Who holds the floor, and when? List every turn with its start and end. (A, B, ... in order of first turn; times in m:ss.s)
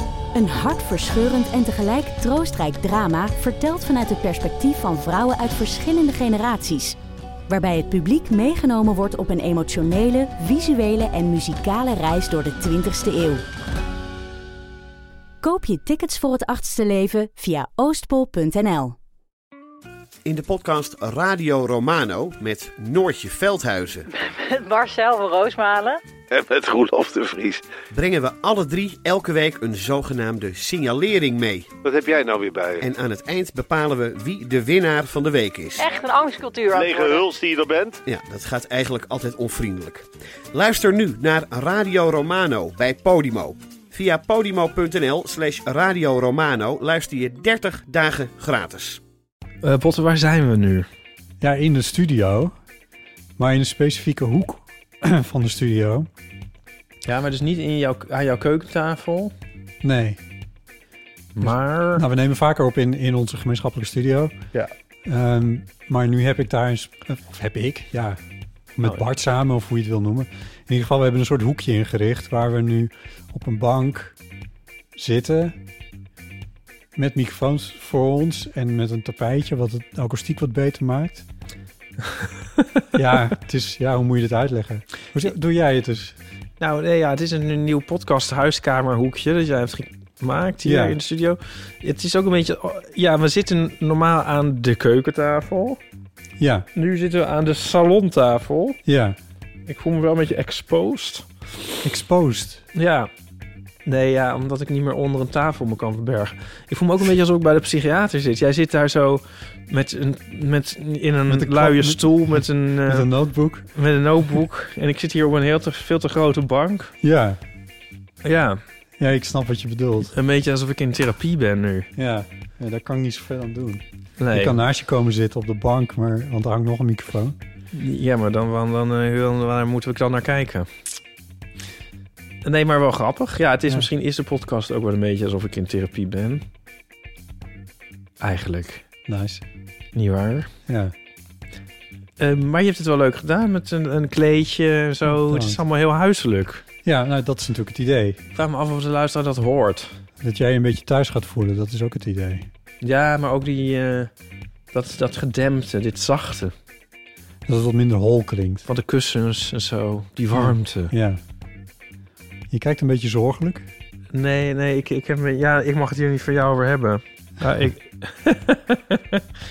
0:00.3-0:07.0 A
0:07.5-0:13.4 A
0:15.4-0:19.0 A
0:20.2-0:24.1 B
0:24.1-0:26.0 C
0:26.3-0:27.6 D
0:27.9-0:31.7 B
0:31.8-0:32.8 D
0:32.8-0:35.9 B
0:35.8-0:37.3 C
0:36.7-0:38.0 D
0:38.1-0:49.0 B
0:49.6-0:50.9 E
0:51.4-0:52.6 F
0:53.4-0:56.1 F
0:57.0-0:59.3 E
0:59.8-1:00.2 F
1:01.4-1:02.0 E
1:01.4-1:04.4 F
1:05.1-1:08.2 F
1:08.8-1:14.2 F
1:15.0-1:15.6 F
1:17.0-1:21.2 F
1:22.9-1:26.2 F
1:26.6-1:35.8 E
1:30.6-1:31.0 F
1:36.4-1:36.7 F
1:36.8-1:38.8 E
1:38.9-1:39.2 F
1:39.7-1:41.3 E
1:41.8-1:42.6 F
1:42.8-1:43.1 E
1:43.9-1:53.1 E
1:51.3-1:53.7 F
1:53.7-1:56.9 E
1:57.0-1:57.4 F
1:58.2-1:58.6 E
1:59.0-2:00.1 F
2:00.1-2:01.9 E
2:02.0-2:07.4 F
2:04.2-2:04.6 E
2:07.7-2:10.7 E
2:12.4-2:16.4 E
2:18.2-2:18.8 E
2:19.1-2:19.4 F
2:20.0-2:20.5 E
2:20.7-2:20.9 F
2:22.2-2:26.6 E
2:25.1-2:25.6 F
2:26.8-2:28.2 F
2:28.4-2:29.9 E
2:30.2-2:32.5 F
2:32.8-2:34.1 E
2:34.7-2:36.5 E
2:37.5-2:38.7 F
2:38.7-2:40.9 E
2:40.4-2:41.2 F
2:42.5-2:43.7 F
2:44.1-2:49.2 E